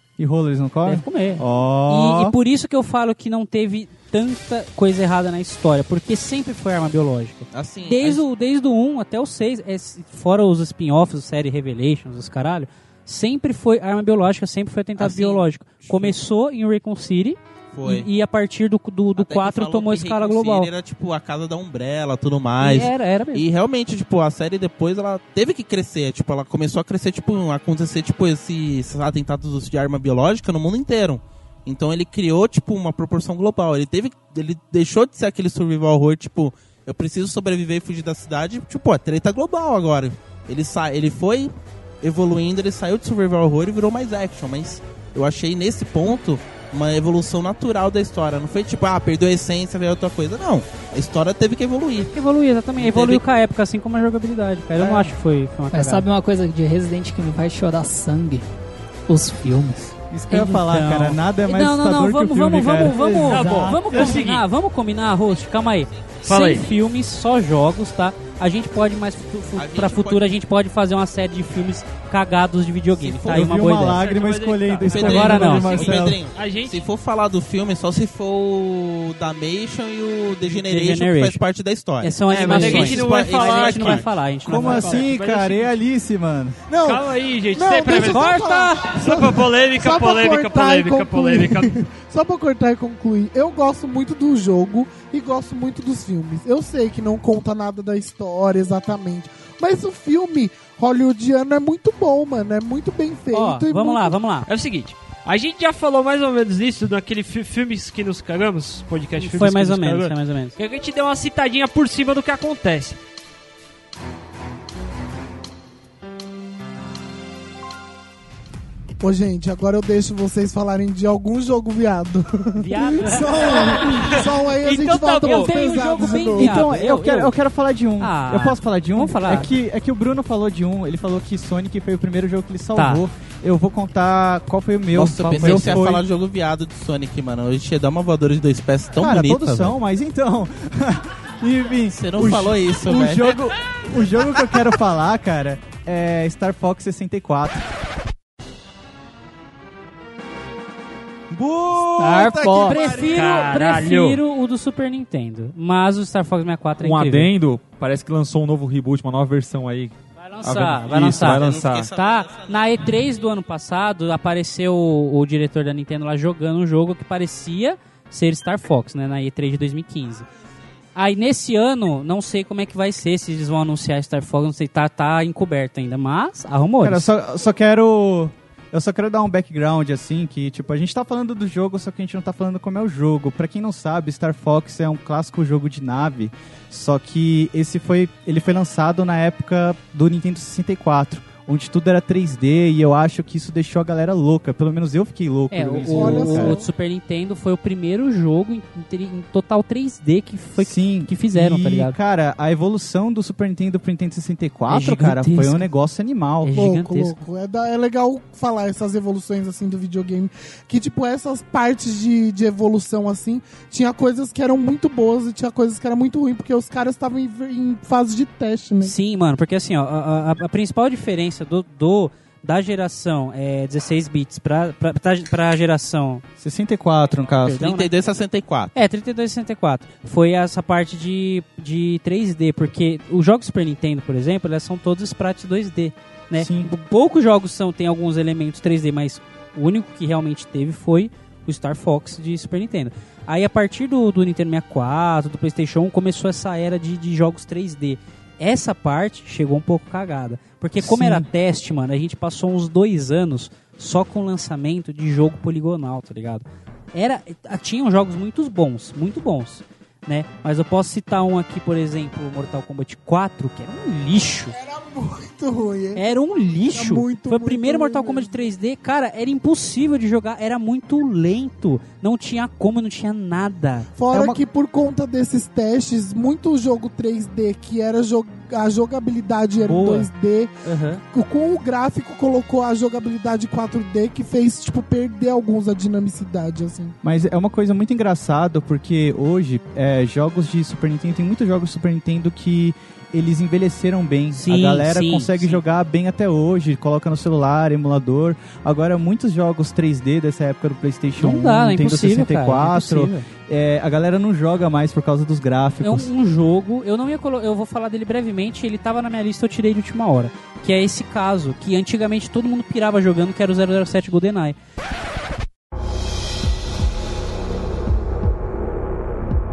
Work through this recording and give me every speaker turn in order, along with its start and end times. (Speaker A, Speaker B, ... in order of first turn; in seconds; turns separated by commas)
Speaker A: 0.2-2.4, Speaker B: 0.8-20.7, Speaker C: 7.5-8.2, Speaker C: 15.0-16.2, Speaker C: 17.7-18.1, Speaker C: 19.1-52.1, Speaker B: 22.6-23.4, Speaker B: 52.1-56.0, Speaker C: 52.8-53.2, Speaker D: 55.7-58.5, Speaker D: 59.1-60.4, Speaker A: 60.1-64.2, Speaker B: 60.3-74.0, Speaker E: 63.2-64.4, Speaker E: 66.3-66.7, Speaker C: 69.5-70.3, Speaker C: 72.9-73.7, Speaker A: 73.3-76.2, Speaker E: 73.8-76.8, Speaker C: 74.8-84.1, Speaker B: 75.1-75.6, Speaker B: 80.4-81.4, Speaker B: 82.0-85.0, Speaker E: 82.3-85.7, Speaker D: 82.5-82.9, Speaker A: 84.5-86.6, Speaker F: 86.7-104.1, Speaker E: 86.8-91.7, Speaker B: 87.9-89.0, Speaker B: 103.3-104.5, Speaker E: 104.5-113.0, Speaker B: 109.2-110.5, Speaker F: 119.0-126.7, Speaker B: 122.5-124.2, Speaker E: 123.6-125.5, Speaker B: 125.1-127.3, Speaker A: 126.4-136.0, Speaker B: 128.0-129.5, Speaker B: 132.7-133.0, Speaker C: 134.9-139.8, Speaker B: 135.4-135.8, Speaker A: 138.9-147.7, Speaker C: 141.9-143.4, Speaker D: 152.0-153.0, Speaker B: 152.5-157.3, Speaker E: 152.9-154.2, Speaker G: 156.8-161.9, Speaker B: 160.2-170.3, Speaker C: 161.2-162.9, Speaker B: 170.9-177.1, Speaker A: 176.8-196.6, Speaker B: 195.5-201.9, Speaker F: 195.9-196.7, Speaker A: 200.6-206.5, Speaker B: 204.7-205.7, Speaker B: 206.4-207.1, Speaker F: 206.5-218.9, Speaker B: 218.8-226.2, Speaker A: 226.4-227.8, Speaker B: 227.4-227.8, Speaker C: 227.5-228.7, Speaker B: 228.7-264.5, Speaker A: 236.3-236.7, Speaker A: 250.8-251.3, Speaker F: 264.5-266.1, Speaker B: 265.9-273.9, Speaker F: 266.6-268.4, Speaker F: 274.0-280.5, Speaker A: 274.1-274.4, Speaker B: 279.6-280.1, Speaker B: 280.6-281.0, Speaker F: 281.1-286.9, Speaker A: 287.0-306.1, Speaker B: 294.3-295.6, Speaker B: 301.2-303.3, Speaker B: 305.8-314.5